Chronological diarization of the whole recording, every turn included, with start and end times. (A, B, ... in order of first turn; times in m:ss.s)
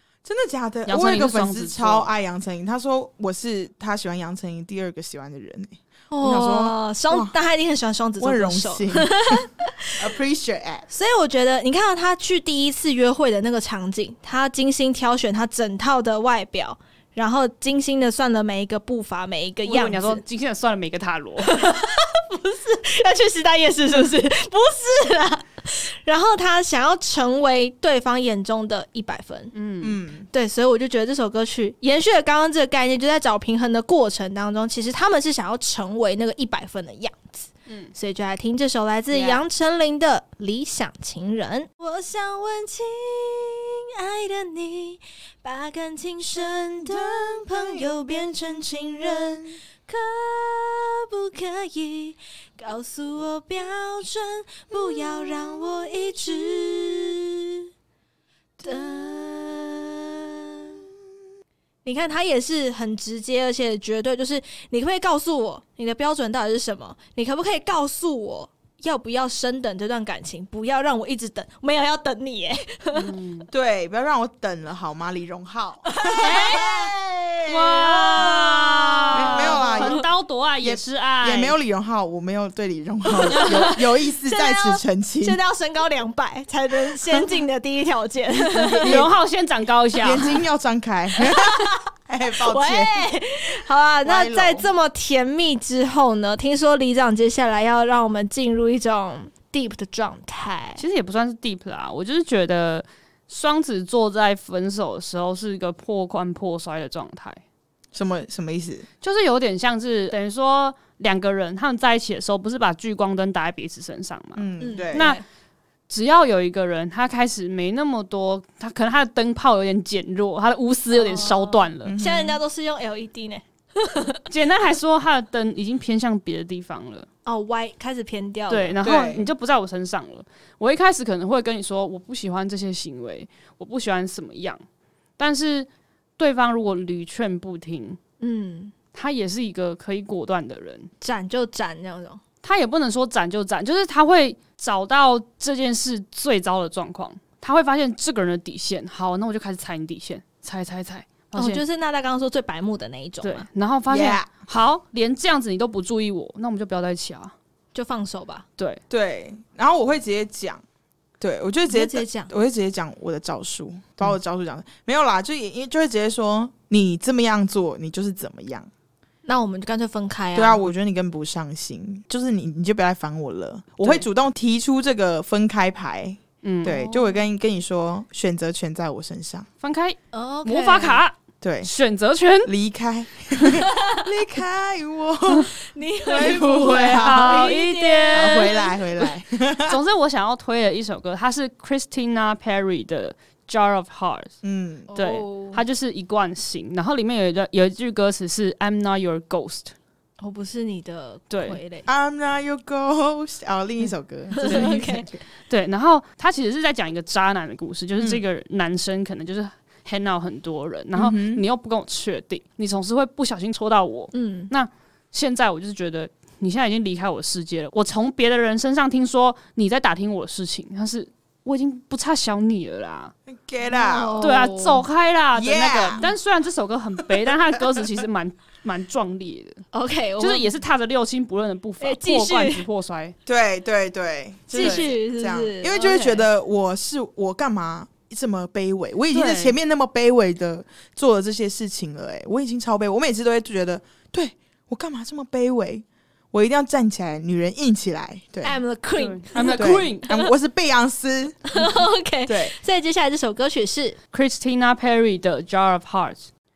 0:00.2-0:07.3 A
0:00.9-0:02.1 B
0:06.1-0:09.9 C
0:08.2-0:09.4 A
0:10.0-0:10.9 A
0:10.9-0:20.2 C
0:19.6-0:21.6 B
0:21.4-0:29.5 C
0:29.5-0:30.0 B
0:29.8-0:30.3 A
0:30.3-0:57.7 C
0:39.1-0:39.4 B
0:46.9-0:47.9 A
0:58.6-1:00.9 C
1:01.8-1:13.2 C
1:12.9-1:13.5 B
1:13.5-1:16.9 A
1:15.9-1:20.1 C
1:16.2-1:16.7 B
1:17.5-1:21.6 B
1:19.1-1:20.0 A
1:20.6-1:25.4 A
1:23.2-1:29.1 C
1:23.3-1:23.7 B
1:28.6-1:30.4 B
1:28.8-1:29.1 A
1:30.0-1:33.0 A
1:31.4-1:31.8 C
1:32.4-1:40.8 C
1:34.0-1:34.7 A
1:40.8-1:47.4 B
1:47.9-1:48.9 A
1:49.0-1:55.2 B
1:54.4-1:55.2 A
1:54.6-1:55.2 C
1:55.9-2:01.9 B
2:00.9-2:04.3 C
2:01.8-2:02.4 A
2:04.3-2:07.1 B
2:07.2-2:08.8 C
2:08.5-2:14.6 B
2:08.8-2:09.3 A
2:15.2-2:18.0 B
2:18.2-2:18.7 C
2:18.9-2:20.9 B
2:21.0-2:22.2 C
2:22.4-2:31.6 B
2:31.3-2:33.4 C
2:33.2-2:37.3 B
2:33.9-2:34.3 A
2:37.7-2:38.4 C
2:38.9-2:40.6 A
2:41.2-2:48.7 A
2:41.7-2:42.3 C
2:49.2-2:50.6 C
2:50.3-2:59.5 A
2:56.4-2:57.0 B
2:59.6-3:02.5 B
3:00.1-3:01.0 C
3:01.4-3:01.7 A
3:02.4-3:05.5 A
3:03.4-3:04.1 C
3:05.6-3:08.7 C
3:06.0-3:07.4 A
3:06.2-3:08.6 B
3:08.1-3:09.8 A
3:09.6-3:14.3 B
3:14.4-3:14.9 A
3:14.9-3:15.6 C
3:14.9-3:19.7 B
3:20.2-3:21.9 C
3:21.3-3:21.6 B
3:21.8-3:25.2 A
3:24.3-3:25.1 C
3:25.5-3:43.1 B
3:30.9-3:31.4 A
3:34.1-3:34.5 C
3:43.3-3:44.3 A
3:43.7-3:44.8 C
3:44.2-3:49.6 B
3:45.3-3:46.0 A
3:49.7-3:50.5 C
3:50.2-3:53.1 B
3:51.8-3:52.7 C
3:53.2-4:08.6 A
3:54.5-3:56.2 C
3:54.5-3:54.9 B
3:59.1-3:59.6 B
4:08.4-4:10.3 C
4:09.0-4:10.1 B
4:09.5-4:11.7 A
4:11.5-4:14.0 C
4:12.2-4:12.5 A
4:14.1-4:16.3 B